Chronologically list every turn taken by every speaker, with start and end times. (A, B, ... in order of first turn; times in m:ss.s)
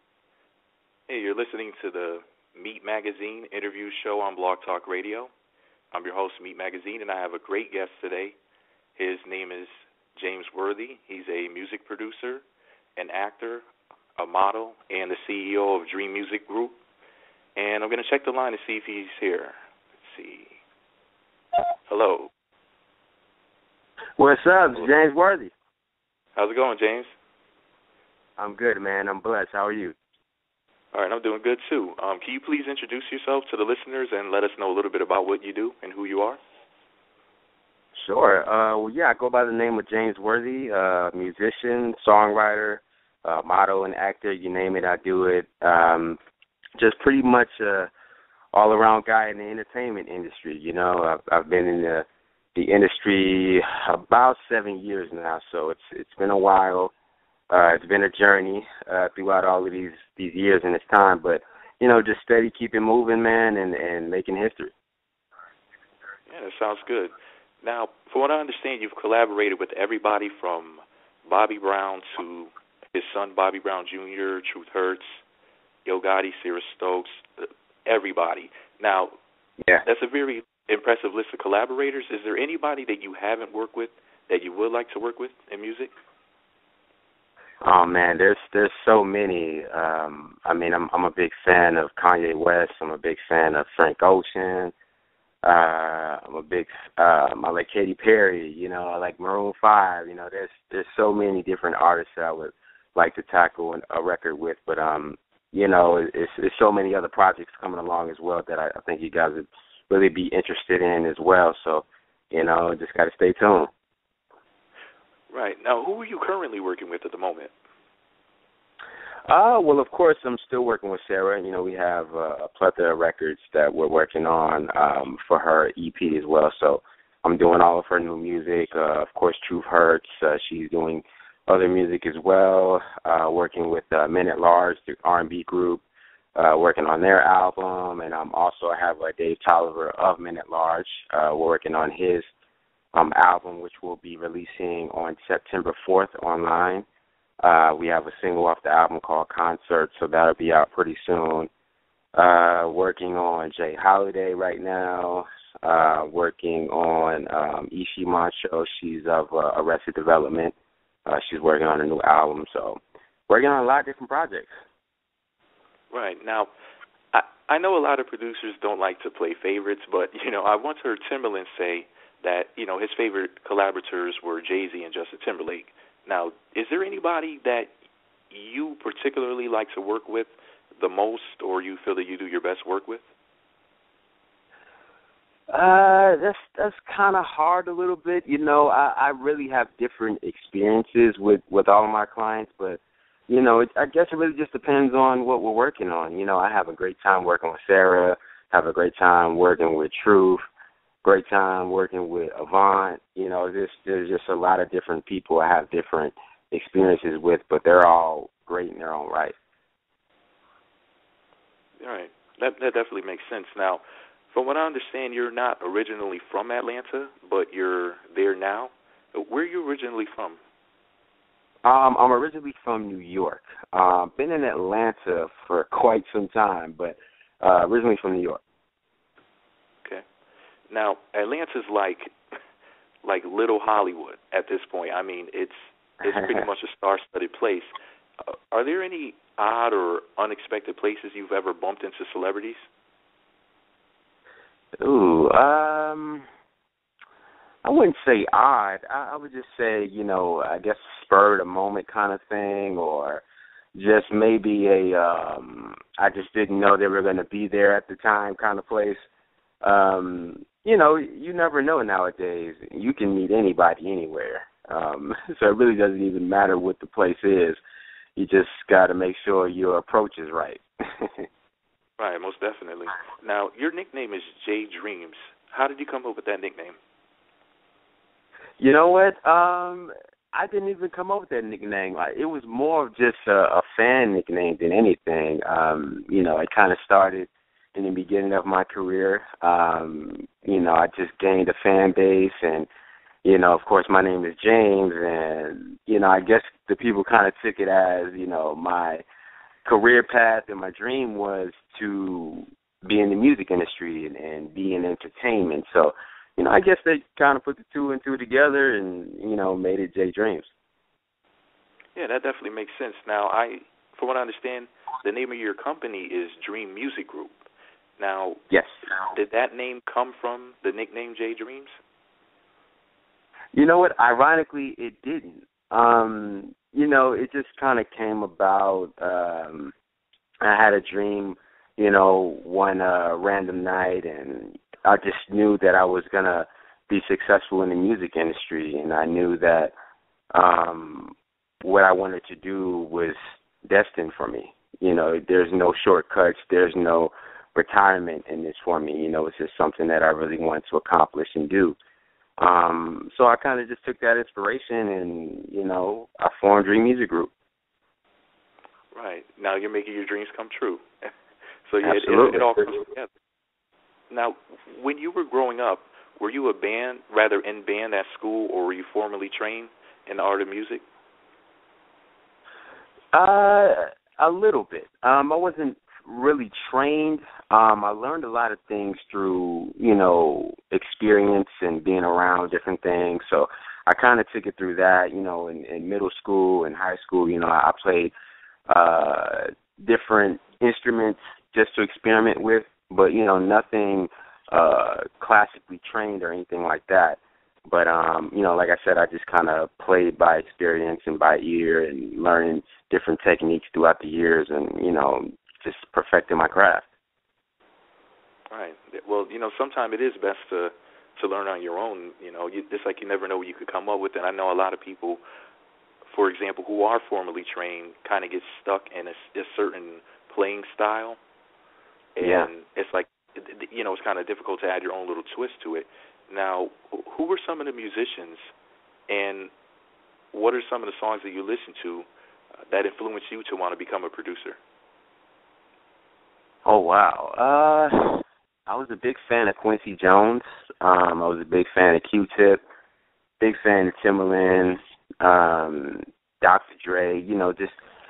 0:01.1-0:05.3 A
0:05.9-0:08.4 A
0:09.0-0:12.4 A
0:13.0-0:13.6 A
0:14.2-0:16.8 A
0:17.6-0:20.6 A
0:21.9-0:22.3 A
0:24.2-0:25.5 B
0:26.4-0:27.1 A
0:28.4-0:30.0 B
0:30.9-0:36.4 A
0:38.0-0:46.2 B
0:46.8-0:47.9 B
0:48.5-0:56.9 B
0:57.5-1:04.7 B
1:06.3-1:15.2 A
1:15.8-1:19.1 A
1:19.8-1:25.9 A
1:27.6-1:34.7 B
1:35.4-1:53.7 B
1:55.3-1:57.5 A
1:59.3-2:15.8 B
2:16.4-2:22.3 B
2:22.9-2:26.8 B
2:27.4-2:31.5 B
2:32.1-2:40.5 B
2:41.0-2:44.5 B
2:45.9-2:46.5 A
2:47.1-2:57.7 A
2:58.3-3:03.0 A
3:05.5-3:20.4 B
3:21.0-3:29.3 B
3:31.8-3:40.4 A
3:41.6-3:48.4 B
3:50.7-3:52.1 A
3:53.0-4:02.6 A
3:56.0-3:56.4 B
4:04.8-4:06.2 B
4:07.6-4:13.2 B
4:13.7-4:19.0 B
4:19.6-4:27.6 B
4:28.2-4:31.3 B
4:32.0-4:36.8 A
4:38.6-4:52.7 B
4:53.2-4:59.0 B
4:59.6-5:10.5 B
5:11.9-5:17.4 A
5:18.0-5:18.4 A
5:19.1-5:21.7 A
5:23.5-5:29.7 B
5:30.4-5:39.7 B
5:40.3-5:51.8 B
5:52.4-5:57.3 B
5:58.9-6:01.1 A
6:01.6-6:03.1 A
6:01.8-6:02.8 B
6:04.1-6:10.8 A
6:13.1-6:28.1 B
6:28.7-6:46.9 B
6:48.5-6:55.2 A
6:56.0-7:01.2 A
7:02.2-7:08.5 A
7:02.2-7:02.5 B
7:09.1-7:09.5 A
7:10.3-7:12.1 A
7:12.7-7:14.6 A
7:16.6-7:22.6 B
7:23.4-7:27.8 B